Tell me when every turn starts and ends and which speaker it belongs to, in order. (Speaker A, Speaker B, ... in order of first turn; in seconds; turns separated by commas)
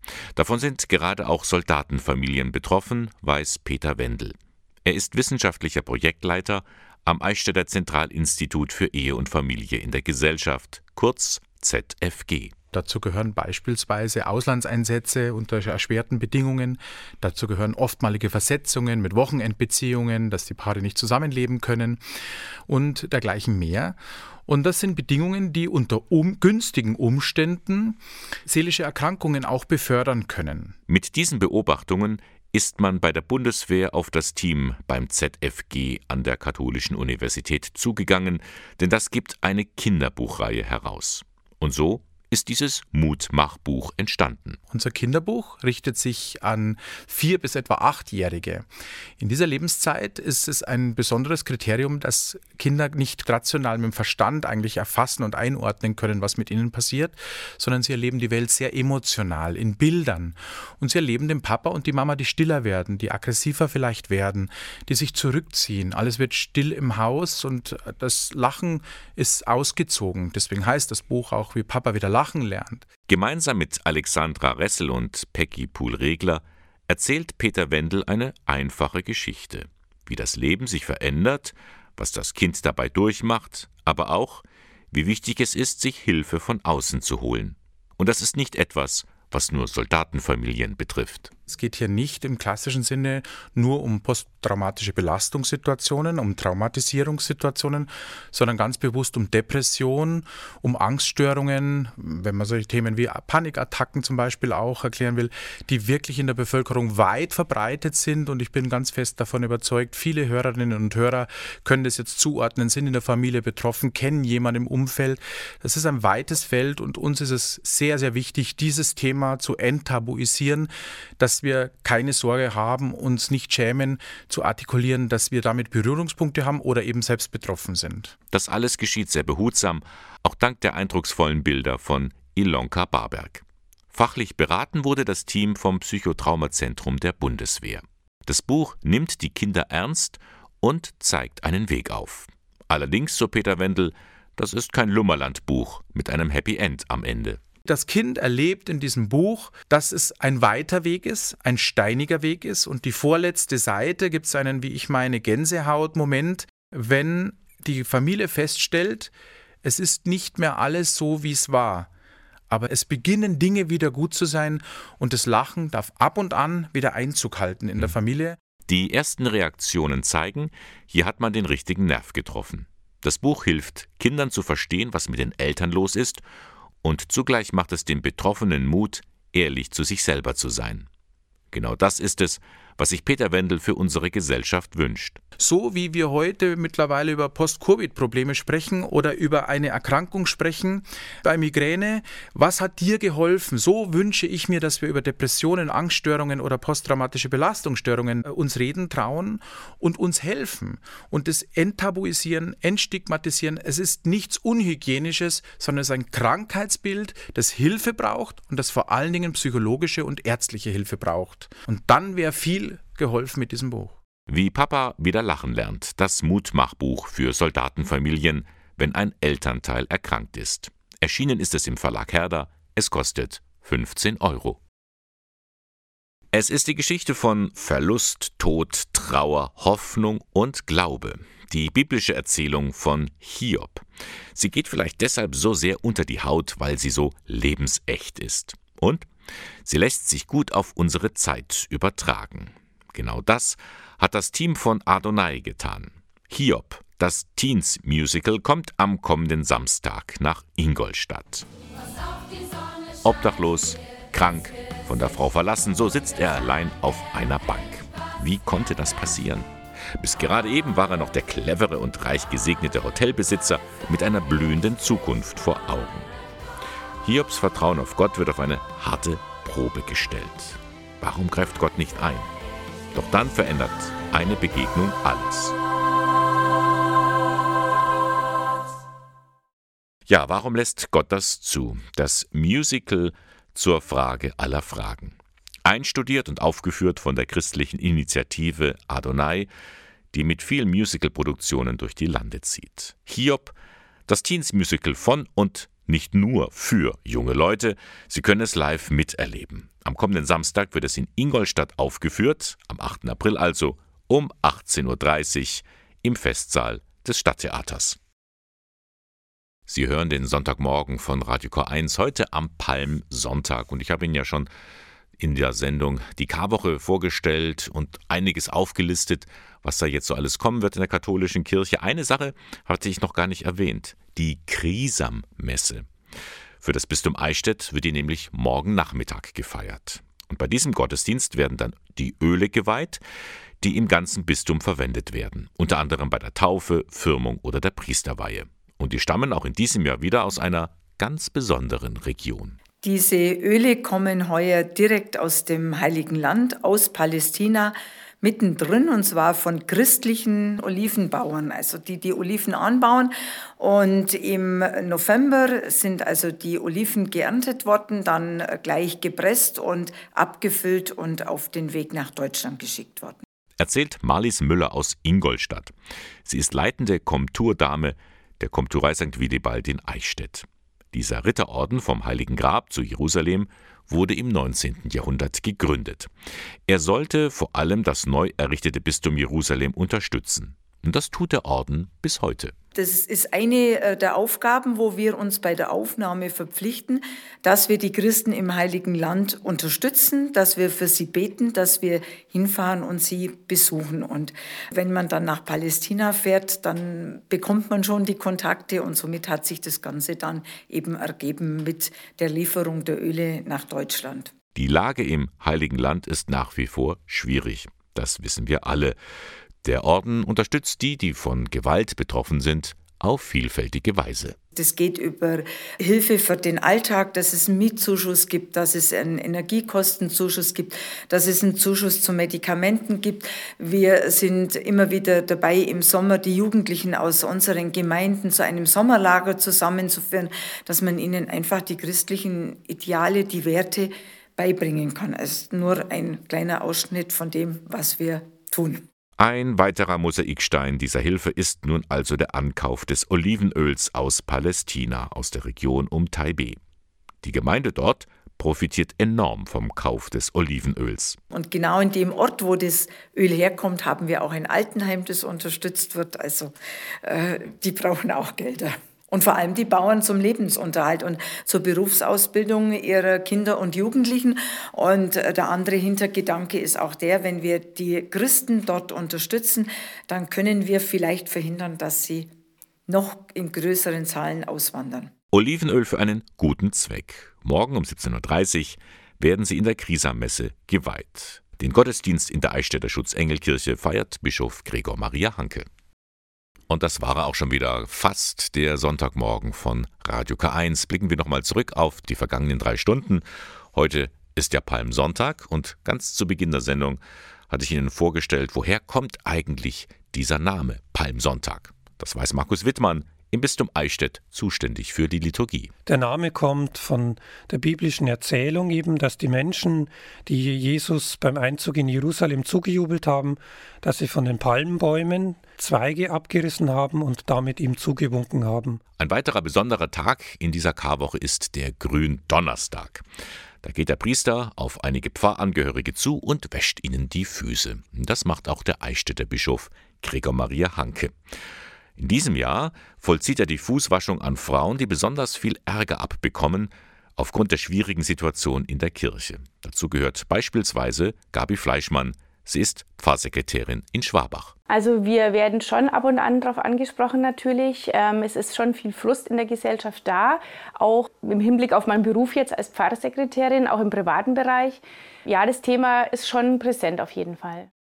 Speaker A: 0.3-12.5, Speaker B: 12.7-22.0, Speaker B: 22.7-30.7, Speaker A: 30.9-44.6, Speaker B: 44.7-48.7, Speaker B: 49.2-72.9, Speaker A: 73.1-91.3, Speaker B: 91.5-128.1, Speaker A: 128.3-147.4, Speaker B: 147.7-159.1, Speaker B: 159.6-161.9, Speaker B: 162.5-168.4, Speaker A: 168.7-176.2, Speaker A: 176.8-180.9, Speaker A: 181.5-185.2, Speaker B: 185.4-214.0, Speaker A: 214.3-224.6, Speaker A: 226.3-239.1, Speaker A: 239.6-251.4, Speaker A: 253.0-266.1, Speaker A: 267.0-272.3, Speaker A: 272.9-275.6, Speaker A: 280.1-289.5, Speaker A: 290.1-293.5, Speaker A: 294.1-308.0, Speaker A: 309.7-314.5, Speaker A: 315.2-325.9, Speaker A: 326.6-333.0, Speaker A: 333.6-342.6, Speaker C: 342.8-363.2, Speaker A: 363.6-365.7, Speaker A: 366.2-376.1, Speaker A: 376.7-382.5, Speaker C: 382.8-404.3, Speaker A: 404.5-409.0, Speaker A: 409.6-414.4, Speaker C: 414.5-438.8, Speaker A: 439.2-446.6, Speaker A: 447.2-451.2, Speaker C: 451.3-472.3, Speaker C: 472.9-475.1, Speaker A: 475.3-485.7, Speaker A: 486.7-505.7, Speaker D: 505.9-518.8, Speaker A: 519.0-523.0, Speaker A: 523.6-531.1, Speaker A: 532.0-544.5, Speaker E: 544.7-557.7